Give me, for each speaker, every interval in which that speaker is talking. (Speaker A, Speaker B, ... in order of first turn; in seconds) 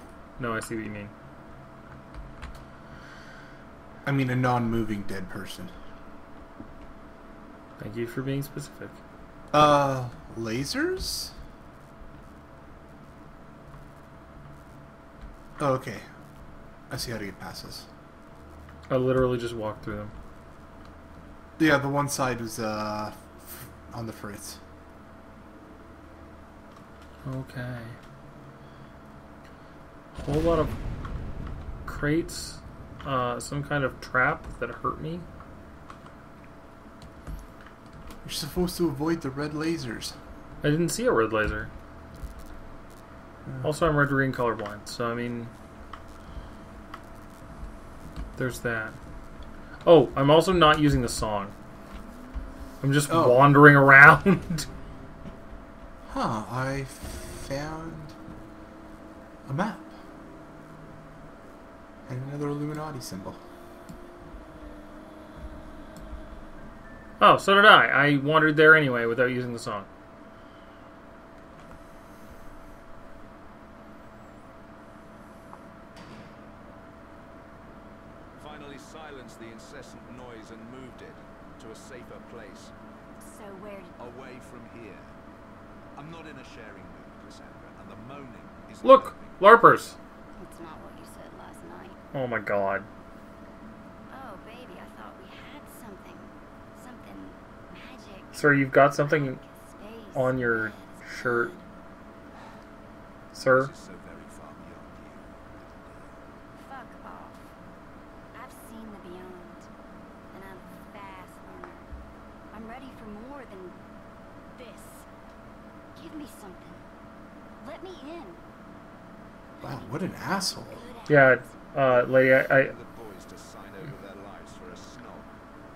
Speaker A: 0.4-1.1, 7.8-9.0, 18.9-20.1, 27.2-28.0, 30.2-30.7, 31.8-35.2, 40.6-41.7, 43.6-45.5, 48.4-49.0, 49.8-51.5, 52.8-54.7, 67.2-69.9, 88.8-90.0, 92.1-92.9, 98.3-99.4, 100.1-101.5, 103.3-103.7, 121.1-122.7
Speaker B: 4.0-5.7, 9.5-11.3, 15.6-16.1, 16.9-17.9, 21.6-24.6, 38.2-40.2, 53.1-53.5, 56.1-58.1, 59.5-60.0, 62.1-63.4, 119.6-120.8
Speaker C: 78.4-82.7, 84.0-85.1, 86.0-89.7, 103.5-106.2, 121.9-125.3
Speaker D: 83.2-83.9, 90.3-92.0, 94.1-101.7, 106.6-107.5, 108.3-109.7, 110.3-111.9, 112.5-113.8, 114.5-115.1, 115.9-116.8, 117.6-118.4, 119.6-121.6